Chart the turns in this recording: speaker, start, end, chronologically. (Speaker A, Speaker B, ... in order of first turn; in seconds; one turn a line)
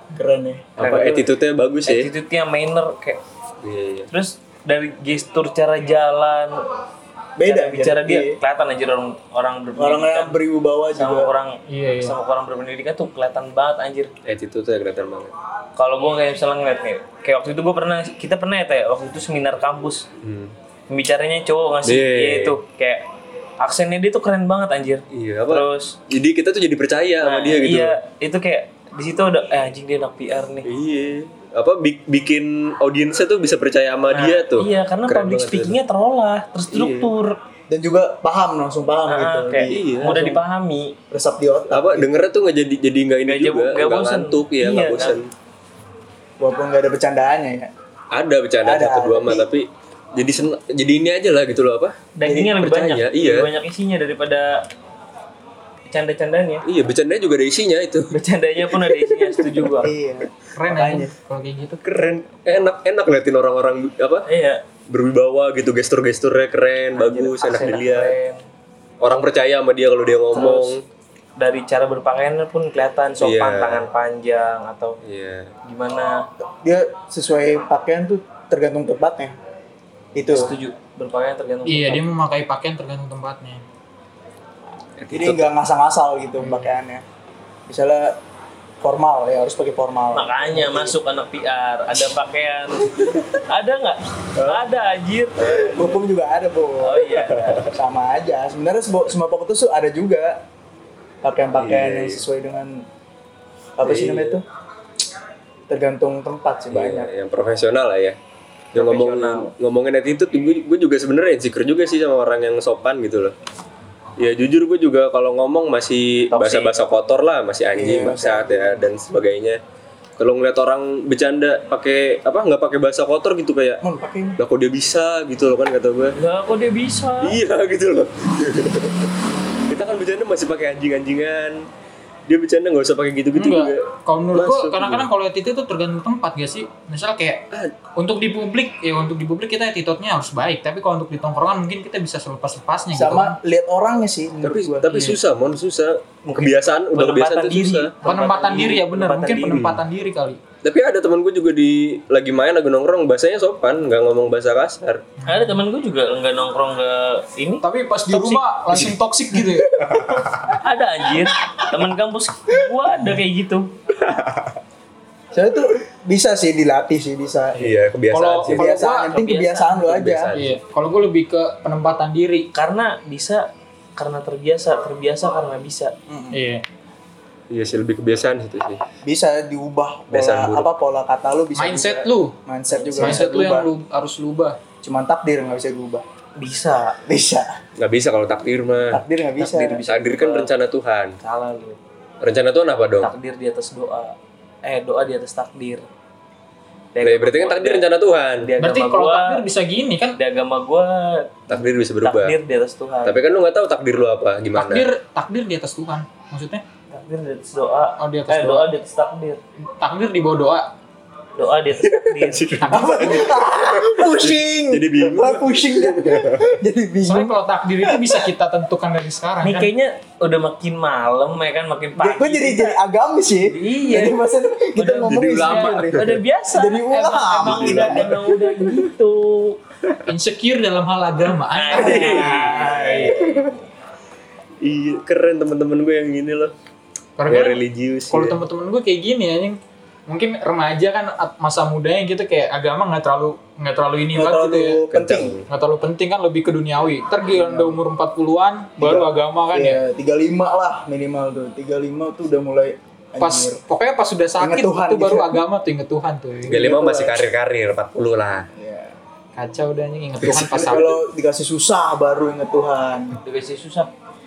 Speaker A: 0.1-0.8
Speaker B: 0.8-1.3
Speaker C: 0.8-2.1
Speaker B: 1.8-3.2
Speaker C: 3.6-4.1
Speaker B: 4.1-6.6
Speaker A: 7.4-8.4
Speaker B: 7.4-10.4
Speaker A: 9.8-11.3
Speaker B: 10.9-14.1
Speaker D: 11.7-12.2
Speaker C: 14.2-15.3
Speaker B: 15.8-20.1
Speaker C: 20.2-20.5
Speaker B: 20.9-23.0
Speaker C: 21.8-22.6
Speaker B: 23.6-25.9
Speaker C: 25.1-28.0
Speaker B: 27.2-30.7
Speaker C: 30.6-35.8
Speaker B: 34.1-37.4
Speaker C: 36.7-37.1
Speaker A: 37.7-40.4
Speaker B: 39.1-41.0
Speaker C: 39.7-40.4
Speaker A: 41.1-42.1
Speaker C: 41.7-45.3
Speaker B: 43.2-45.2
Speaker A: 46.4-47.7
Speaker C: 48.1-53.5
Speaker A: 48.6-49.5
Speaker B: 52.1-54.6
Speaker B: 55.9-56.6
Speaker C: 56.6-58.1
Speaker B: 58.1-59.9
Speaker A: 59.8-61.1
Speaker D: 60.5-61.8
Speaker C: 61.8-64.2
Speaker B: 64.3-64.6
Speaker C: 64.9-68.1
Speaker B: 66.9-68.4
Speaker C: 69.0-70.8
Speaker B: 70.3-70.8
Speaker B: 71.4-75.0
Speaker C: 73.2-73.8
Speaker C: 75.0-75.5
Speaker B: 75.6-76.3
Speaker A: 76.4-79.3
Speaker A: 80.1-80.5
Speaker B: 80.3-82.0
Speaker D: 81.7-83.6
Speaker C: 85.0-85.5
Speaker A: 85.1-87.0
Speaker D: 86.4-86.7
Speaker A: 87.7-88.2
Speaker A: 88.8-91.0
Speaker B: 90.1-95.9
Speaker C: 94.4-94.6
Speaker C: 95.4-95.7
Speaker A: 95.5-100.4
Speaker B: 96.8-97.7
Speaker C: 97.3-97.7
Speaker A: 101.2-102.8
Speaker C: 101.5-102.2
Speaker A: 103.8-104.4
Speaker C: 103.8-104.4
Speaker A: 105.7-107.1
Speaker C: 106.7-108.2
Speaker B: 108.7-109.5
Speaker C: 108.7-113.3
Speaker C: 114.2-119.6
Speaker B: 116.3-116.8
Speaker A: 117.7-118.8
Speaker C: 120.2-123.8
Speaker A: 123.8-124.4
Speaker C: 124.4-126.2
Speaker B: 126.2-127.4
Speaker C: 127.2-129.1
Speaker C: 129.7-131.7
Speaker C: 132.3-135.1
Speaker D: 133.3-143.4
Speaker A: 142.9-144.9
Speaker C: 144.4-147.9
Speaker D: 144.9-145.2
Speaker B: 146.3-149.6
Speaker D: 148.0-150.4
Speaker C: 149.5-149.8
Speaker C: 150.6-155.1
Speaker D: 155.2-155.6
Speaker B: 155.3-158.4
Speaker D: 157.6-159.7
Speaker C: 159.7-160.6
Speaker B: 160.6-163.7
Speaker C: 164.0-164.6
Speaker A: 165.3-167.6
Speaker C: 167.6-168.7
Speaker D: 168.1-169.1
Speaker A: 168.5-170.3
Speaker B: 168.8-169.9
Speaker C: 169.8-170.6
Speaker D: 170.3-172.5
Speaker B: 172.5-175.9
Speaker A: 176.1-176.4
Speaker D: 176.3-176.6
Speaker C: 177.5-178.8
Speaker A: 179.0-183.7
Speaker C: 180.1-180.7
Speaker D: 181.6-182.3
Speaker B: 182.7-183.3
Speaker D: 183.0-184.6
Speaker A: 184.8-186.0
Speaker B: 186.4-187.0
Speaker A: 187.1-187.5
Speaker C: 187.8-189.0
Speaker A: 188.9-189.8
Speaker B: 189.4-190.5
Speaker C: 189.8-191.1
Speaker B: 191.2-191.8
Speaker C: 192.2-193.1
Speaker B: 193.0-195.8
Speaker B: 196.9-197.8
Speaker C: 197.0-198.5
Speaker B: 198.4-199.4
Speaker D: 198.6-200.2
Speaker B: 200.2-203.2
Speaker C: 201.5-202.3
Speaker C: 203.0-204.9
Speaker D: 204.5-206.6
Speaker B: 206.9-209.4
Speaker D: 208.0-208.7
Speaker D: 209.8-210.7
Speaker B: 211.4-212.5
Speaker C: 211.8-216.5
Speaker D: 212.6-213.2
Speaker A: 212.7-218.2
Speaker D: 217.0-219.7
Speaker B: 219.4-222.8
Speaker A: 221.9-228.4
Speaker B: 223.4-229.6
Speaker C: 225.0-226.2
Speaker C: 227.4-228.8
Speaker D: 230.1-232.2
Speaker B: 231.5-233.5
Speaker C: 231.7-233.4
Speaker A: 231.8-233.5
Speaker C: 234.6-236.5
Speaker D: 237.2-244.8
Speaker C: 237.3-238.4
Speaker A: 244.1-245.3
Speaker C: 244.9-245.4
Speaker D: 245.5-249.8
Speaker A: 247.3-247.8
Speaker A: 248.8-253.6
Speaker D: 253.2-256.6
Speaker A: 254.4-255.4
Speaker A: 256.5-257.2
Speaker C: 256.5-258.5
Speaker A: 258.6-259.0
Speaker D: 259.4-260.9
Speaker C: 260.2-260.9
Speaker A: 260.3-263.2
Speaker B: 263.2-263.9